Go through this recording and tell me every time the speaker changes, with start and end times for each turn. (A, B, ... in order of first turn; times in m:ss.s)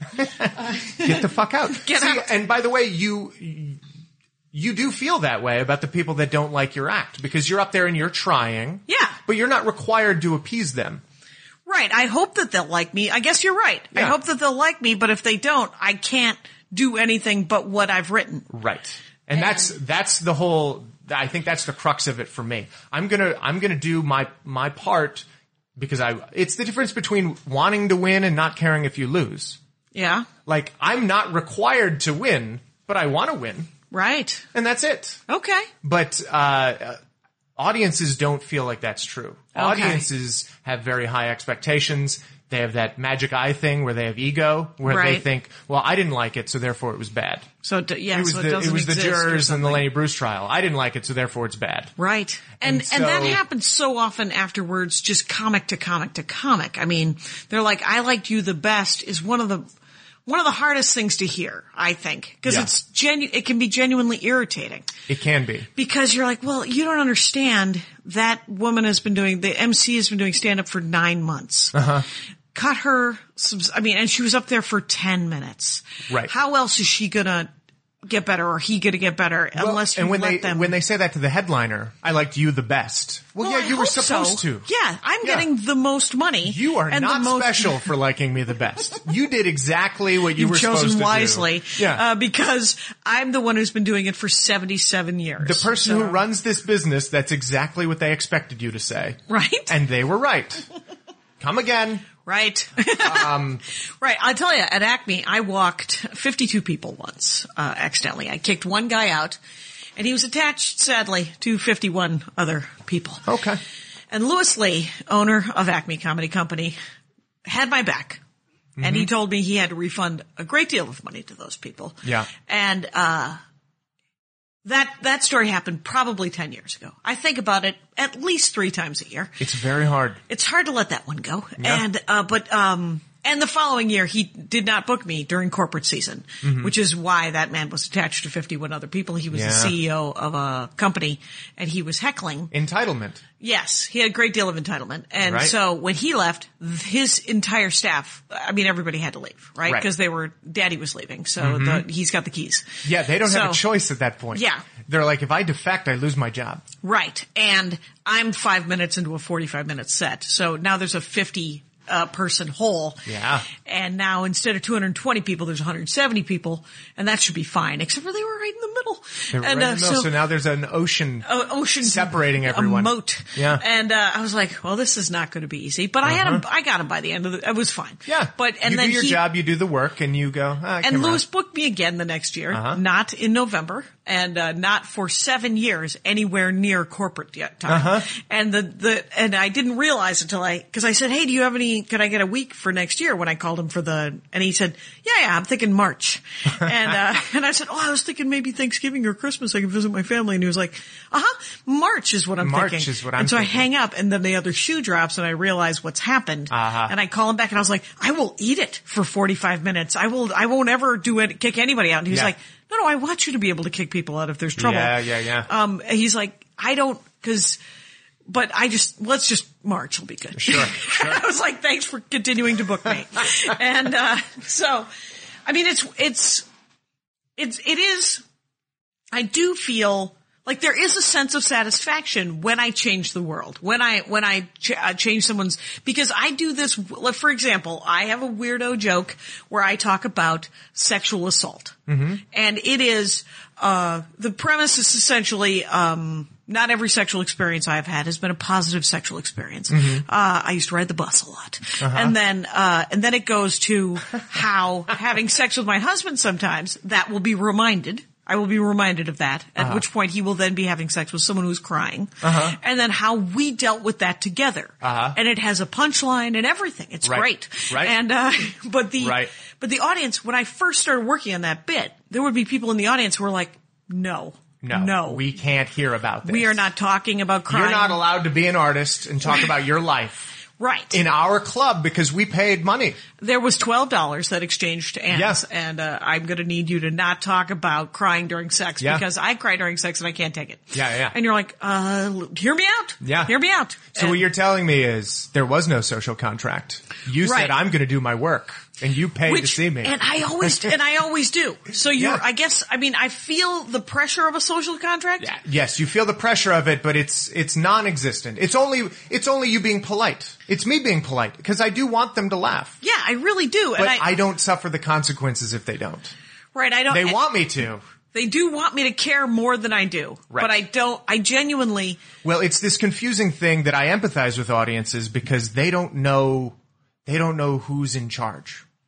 0:00.2-0:03.8 A
0:01.8-0:02.3 B
0:04.5-0:11.0 A
0:08.9-0:09.2 B
0:11.6-0:18.5 B
0:18.5-0:29.6 A
0:29.9-0:30.3 B
0:30.4-0:33.7 A
0:33.9-0:34.4 B
0:34.5-0:35.2 A
0:35.3-0:35.7 B
0:35.8-0:37.0 A
0:37.6-0:47.5 A
0:39.5-0:40.0 B
0:44.8-0:45.2 B
0:47.6-0:49.9 B
0:48.1-0:51.9 A
0:52.0-0:59.6 B
0:52.6-0:53.4 A
1:00.3-1:04.9 B
1:05.1-1:05.7 A
1:05.8-1:11.9 B
1:11.7-1:12.0 A
1:12.5-1:17.5 B
1:18.0-1:20.7 B
1:19.6-1:24.7 A
1:23.4-1:27.8 B
1:25.2-1:25.5 A
1:26.4-1:32.0 A
1:30.4-1:36.2 B
1:35.4-1:40.7 A
1:39.3-1:39.7 B
1:41.4-1:42.1 A
1:42.2-1:43.4 B
1:42.9-1:43.6 A
1:44.0-1:49.4 B
1:50.0-1:53.2 B
1:53.2-1:53.6 A
1:54.1-1:56.8 B
1:57.4-1:58.2 B
1:58.8-1:59.1 A
1:58.8-2:03.4 B
2:02.0-2:02.3 A
2:04.6-2:09.4 B
2:09.4-2:10.2 A
2:10.3-2:22.5 B
2:16.4-2:16.7 A
2:19.3-2:19.8 A
2:22.5-2:23.2 A
2:23.4-2:33.6 B
2:25.2-2:25.5 A
2:31.4-2:31.8 A
2:32.8-2:36.6 A
2:34.3-2:34.6 B
2:36.8-2:50.1 B
2:43.0-2:43.5 A
2:49.3-2:51.3 A
2:51.2-2:59.2 B
2:51.8-2:53.6 A
2:56.0-2:56.4 A
2:58.0-3:01.2 A
3:00.8-3:37.6 B
3:02.5-3:02.8 A
3:07.7-3:08.1 A
3:22.4-3:23.7 A
3:26.5-3:26.9 A
3:34.6-3:35.5 A
3:38.3-3:44.9 B
3:40.3-3:41.2 A
3:45.4-3:46.4 B
3:47.4-3:48.2 B
3:49.1-4:35.2 B
4:01.9-4:02.2 A
4:09.7-4:10.0 A
4:11.8-4:12.1 A
4:19.6-4:19.8 A
4:22.2-4:22.6 A
4:24.8-4:25.2 A
4:27.0-4:27.9 A
4:29.0-4:29.3 A
4:34.6-4:36.6 A
4:36.2-4:38.0 B
4:37.5-4:40.3 A
4:40.6-4:41.0 B
4:40.9-4:43.0 A
4:43.2-4:54.2 B
4:45.1-4:45.4 A
4:50.7-4:51.1 A
4:53.0-4:53.3 A
4:53.9-5:00.7 A
4:57.2-4:57.6 B
4:59.2-5:05.3 B
5:01.9-5:02.2 A
5:05.2-5:12.8 A
5:12.8-5:14.1 B
5:13.8-5:16.1 A
5:16.5-5:17.2 B
5:16.9-5:17.8 A
5:18.1-5:22.0 B
5:22.2-5:28.6 A